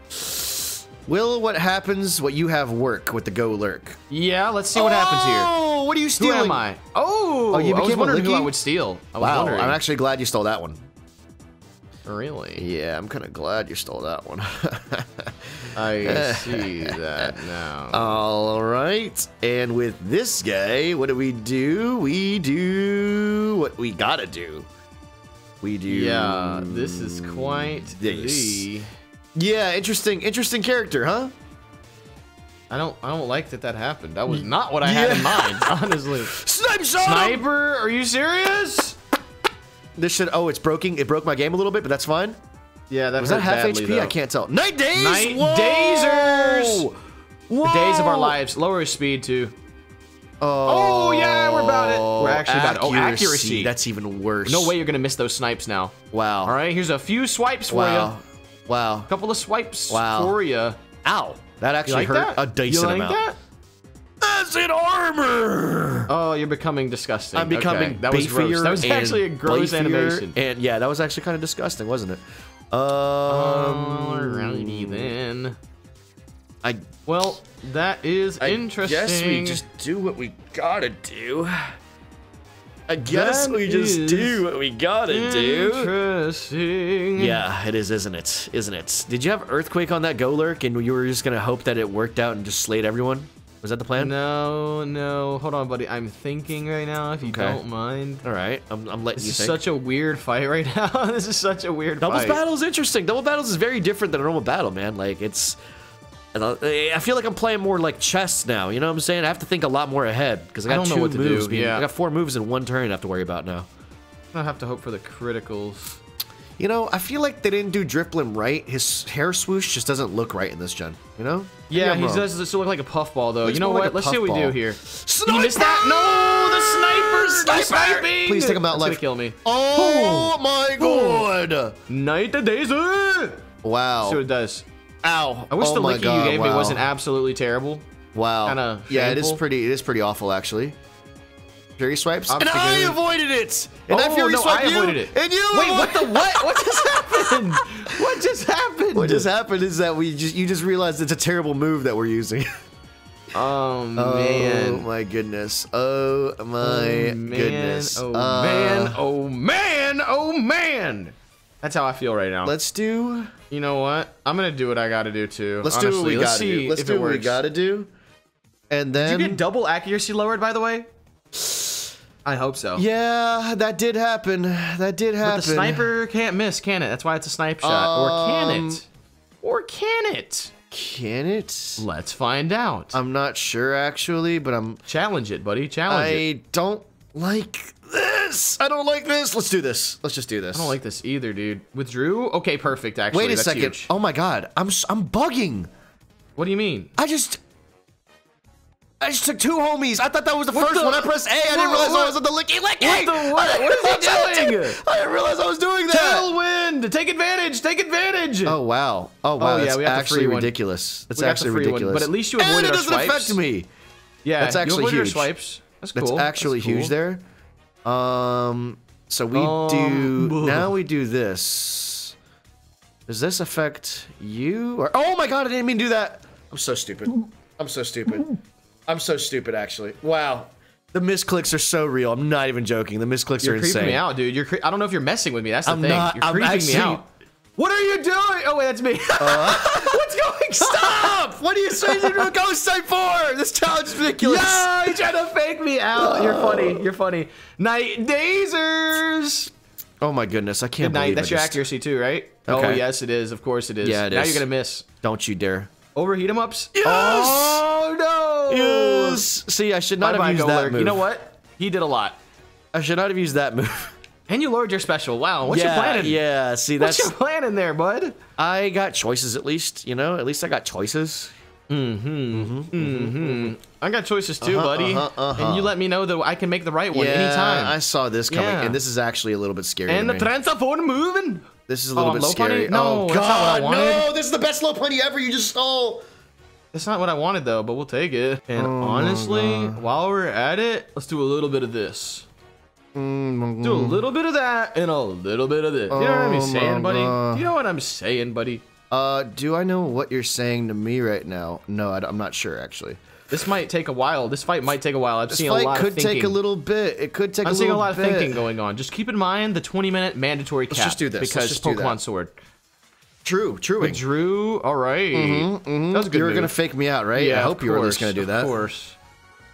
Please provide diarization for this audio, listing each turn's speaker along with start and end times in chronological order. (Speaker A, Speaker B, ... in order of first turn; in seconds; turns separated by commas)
Speaker A: 0.1-4.0, Speaker B: 4.1-5.5, Speaker A: 4.7-6.6, Speaker B: 6.2-9.8, Speaker A: 7.5-8.5, Speaker A: 9.2-10.8, Speaker B: 12.0-12.7, Speaker A: 12.6-24.7, Speaker B: 15.7-18.2, Speaker A: 25.6-28.7, Speaker B: 25.9-28.9, Speaker A: 29.4-31.3, Speaker B: 32.7-36.4, Speaker A: 34.3-37.4, Speaker B: 37.0-39.0, Speaker A: 40.0-42.4, Speaker B: 42.9-44.1, Speaker A: 43.2-46.9, Speaker B: 44.9-46.9, Speaker A: 47.5-48.4, Speaker B: 47.6-49.5, Speaker A: 50.4-54.7, Speaker B: 50.6-53.8, Speaker B: 54.5-58.1, Speaker A: 56.1-56.5, Speaker A: 57.7-59.1, Speaker B: 59.1-60.8, Speaker A: 59.9-60.4, Speaker A: 61.0-63.2, Speaker B: 61.9-63.4, Speaker A: 64.2-66.1, Speaker B: 66.1-70.4, Speaker A: 67.3-75.1, Speaker B: 73.3-75.6, Speaker A: 76.6-76.9, Speaker B: 77.1-79.6, Speaker A: 78.4-81.8, Speaker A: 82.9-85.9, Speaker B: 83.1-84.4, Speaker B: 85.1-87.4, Speaker A: 87.2-94.2, Speaker B: 94.0-98.2, Speaker A: 97.2-97.6, Speaker A: 98.2-99.6, Speaker B: 99.2-102.4, Speaker A: 102.0-105.6, Speaker A: 106.3-113.7, Speaker B: 110.7-111.8, Speaker B: 114.3-116.0, Speaker A: 116.6-122.3, Speaker B: 121.7-131.3, Speaker A: 123.4-131.8, Speaker B: 131.9-133.4, Speaker A: 133.6-134.2, Speaker B: 134.0-134.7, Speaker A: 135.0-136.9, Speaker B: 135.5-137.8, Speaker A: 138.1-140.8, Speaker B: 138.4-139.4, Speaker A: 141.8-148.2, Speaker B: 142.3-143.0, Speaker B: 143.9-149.3, Speaker A: 148.9-152.5, Speaker B: 153.3-154.9, Speaker A: 154.0-159.0, Speaker B: 156.6-162.5, Speaker A: 162.4-163.3, Speaker B: 163.5-167.4, Speaker A: 165.6-167.9, Speaker A: 168.7-169.4, Speaker B: 169.0-170.9, Speaker A: 171.3-171.7, Speaker B: 172.2-172.8, Speaker A: 172.8-175.9, Speaker B: 175.2-178.8, Speaker A: 177.6-178.8, Speaker B: 179.4-180.5, Speaker A: 180.7-181.8, Speaker B: 181.8-183.0, Speaker A: 182.9-184.8, Speaker B: 184.9-186.2, Speaker A: 185.9-190.8, Speaker B: 190.5-193.9, Speaker A: 193.1-195.7, Speaker B: 196.3-196.9, Speaker A: 197.0-197.4, Speaker A: 199.0-206.3, Speaker B: 200.5-202.2, Speaker B: 202.8-204.8, Speaker B: 205.9-208.6, Speaker A: 208.4-213.7, Speaker B: 209.4-210.5, Speaker B: 211.1-213.4, Speaker B: 214.2-216.9, Speaker A: 214.4-215.3, Speaker A: 215.9-217.2, Speaker A: 217.8-222.1, Speaker B: 219.3-220.7, Speaker A: 223.1-228.3, Speaker A: 228.9-234.0, Speaker B: 233.4-237.0, Speaker A: 235.7-237.0, Speaker B: 237.6-242.3, Speaker A: 239.2-245.0, Speaker B: 244.1-249.5, Speaker A: 246.0-246.8, Speaker A: 250.0-251.6, Speaker B: 250.8-254.8, Speaker A: 252.5-252.8, Speaker A: 253.8-254.5, Speaker A: 255.0-255.7, Speaker B: 255.9-259.2, Speaker A: 256.8-257.6, Speaker A: 258.5-261.1, Speaker B: 260.0-262.2, Speaker A: 262.7-263.9, Speaker B: 264.3-266.2, Speaker A: 265.4-267.1, Speaker B: 266.8-268.2, Speaker A: 268.4-271.3, Speaker B: 271.7-277.8, Speaker A: 272.3-273.5, Speaker A: 274.4-275.7, Speaker A: 276.9-280.3, Speaker B: 278.3-278.8, Speaker B: 279.9-284.1, Speaker A: 281.7-286.0, Speaker B: 286.7-292.2, Speaker A: 288.6-289.8, Speaker A: 292.9-294.0, Speaker B: 293.6-298.6, Speaker A: 295.9-297.5, Speaker A: 298.9-303.0, Speaker B: 303.3-306.4, Speaker A: 305.3-308.4, Speaker B: 307.4-312.3, Speaker A: 310.7-312.0, Speaker A: 313.2-314.0, Speaker B: 313.8-316.5, Speaker A: 315.1-318.5, Speaker B: 317.1-319.0